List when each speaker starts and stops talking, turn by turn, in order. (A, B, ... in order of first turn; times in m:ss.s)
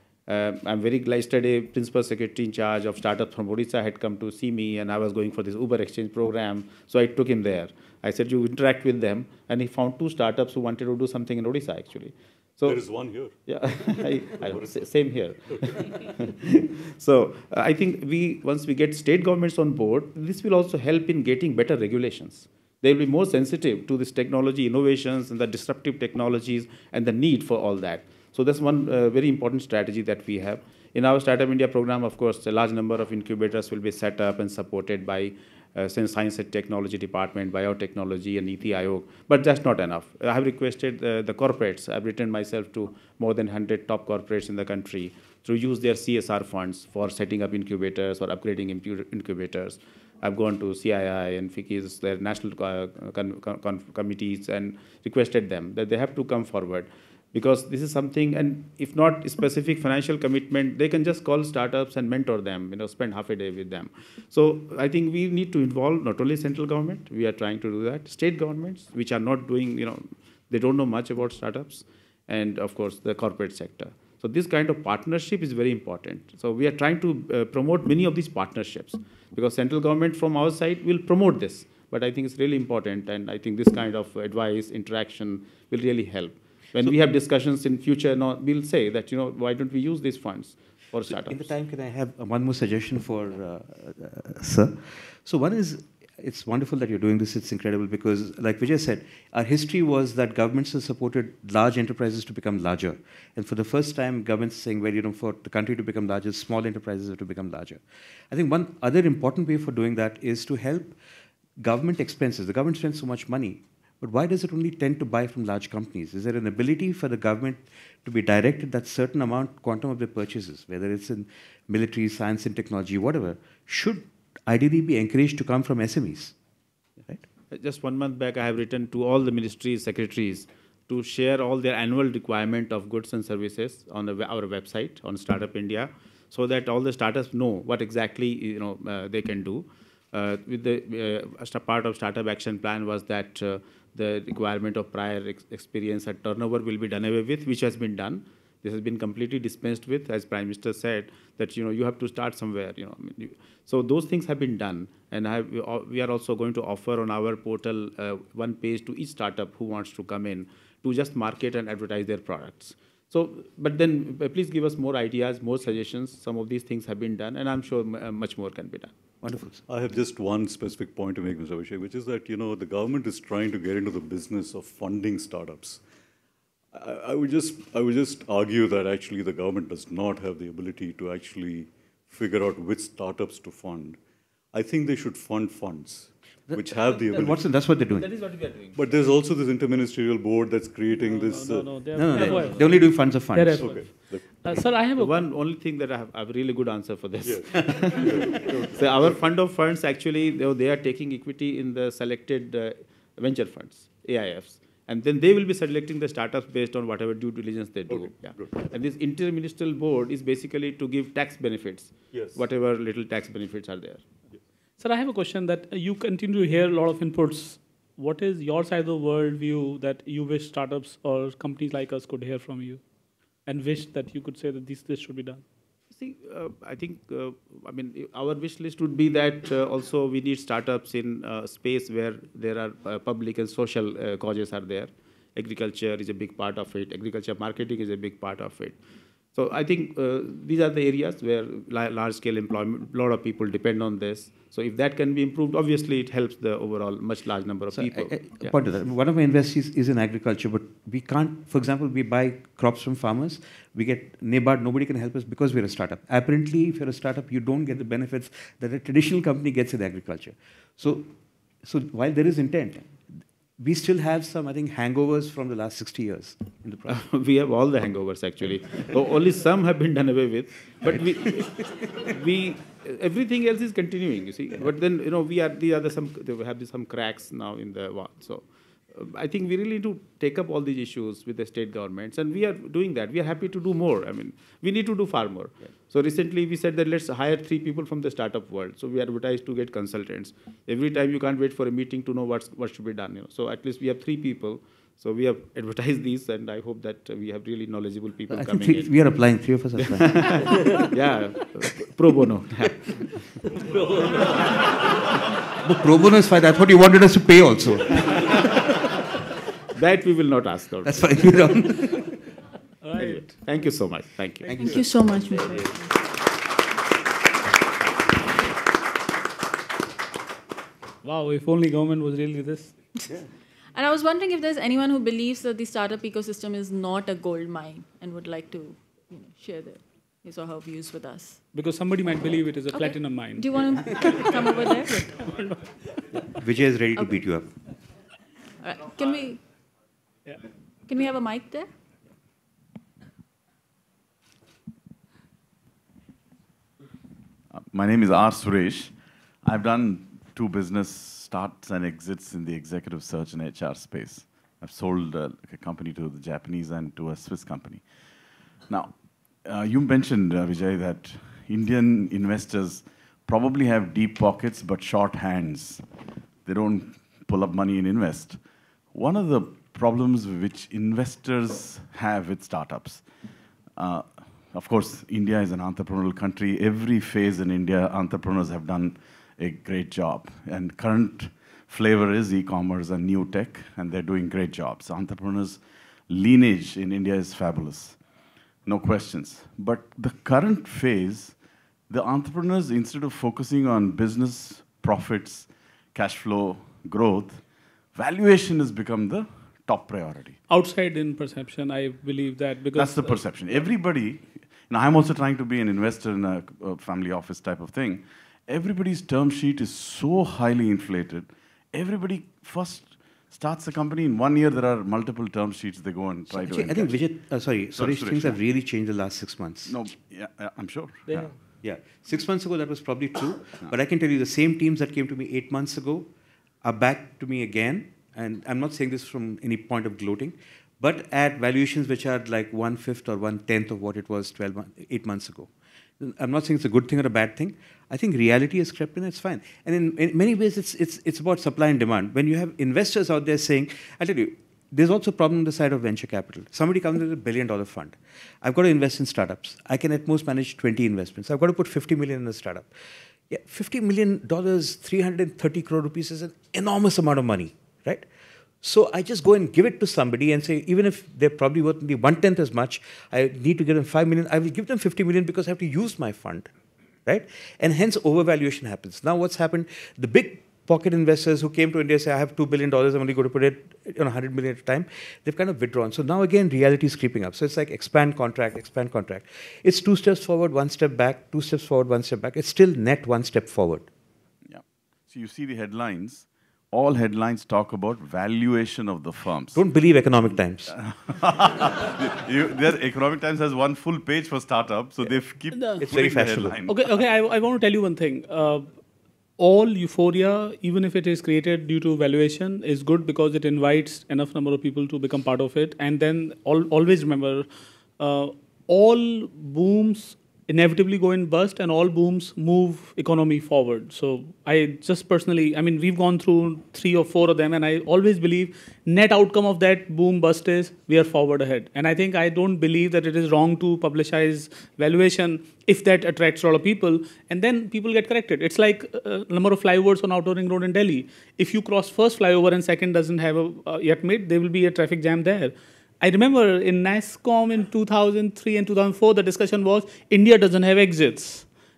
0:00.3-1:31.4 A
0:12.6-0:13.4 B
1:31.1-1:51.0 C
1:51.6-2:06.3 C
2:07.5-2:48.9 A
2:49.2-2:49.6 C
2:49.7-2:55.8 B
2:56.7-3:04.0 B
3:04.5-3:07.6 B
3:06.5-3:08.1 C
3:06.9-3:07.3 A
3:08.0-3:08.8 A
3:08.7-3:12.6 B
3:11.0-3:15.1 D
3:11.9-3:13.8 C
3:13.5-3:14.8 B
3:15.0-3:34.0 A
3:17.2-3:19.1 B
3:27.9-3:28.6 B
3:32.1-3:32.4 B
3:34.8-3:42.8 D
3:43.5-3:45.4 D
3:45.9-3:58.8 A
3:59.3-4:08.5 A
4:07.7-4:21.1 C
4:21.6-4:22.9 C
4:23.6-4:27.0 C
4:26.9-4:58.9 A
4:58.3-5:00.8 C
4:59.8-5:04.4 A
5:05.6-5:08.3 C
5:09.7-5:11.2 A
5:10.8-5:11.9 C
5:12.8-5:13.5 D
5:13.0-5:14.6 A
5:14.4-5:15.7 C
5:14.6-5:15.8 E
5:21.0-5:22.7 D
5:23.7-5:31.4 E
5:31.5-5:34.1 D
5:32.7-5:35.3 E
5:36.2-5:37.5 C
5:38.6-5:39.4 E
5:40.9-5:41.7 E
5:47.5-5:57.9 F
5:58.7-6:05.9 F
6:06.4-6:13.1 F
6:13.8-6:28.0 F
6:28.6-6:40.4 F
6:40.5-6:43.2 D
6:42.7-6:57.0 F
6:56.3-6:59.7 C
6:57.7-6:58.4 F
6:59.6-7:01.3 F
7:01.6-7:06.1 C
7:06.6-7:32.7 C
7:33.3-7:38.0 C
7:38.6-7:46.5 C
7:47.0-8:03.9 C
8:04.4-8:09.7 F
8:09.5-8:10.7 C
8:10.7-8:17.0 F
8:15.5-8:15.8 D
8:15.8-8:16.6 C
8:16.7-8:18.7 D
8:19.4-8:27.4 D
8:28.0-9:01.5 D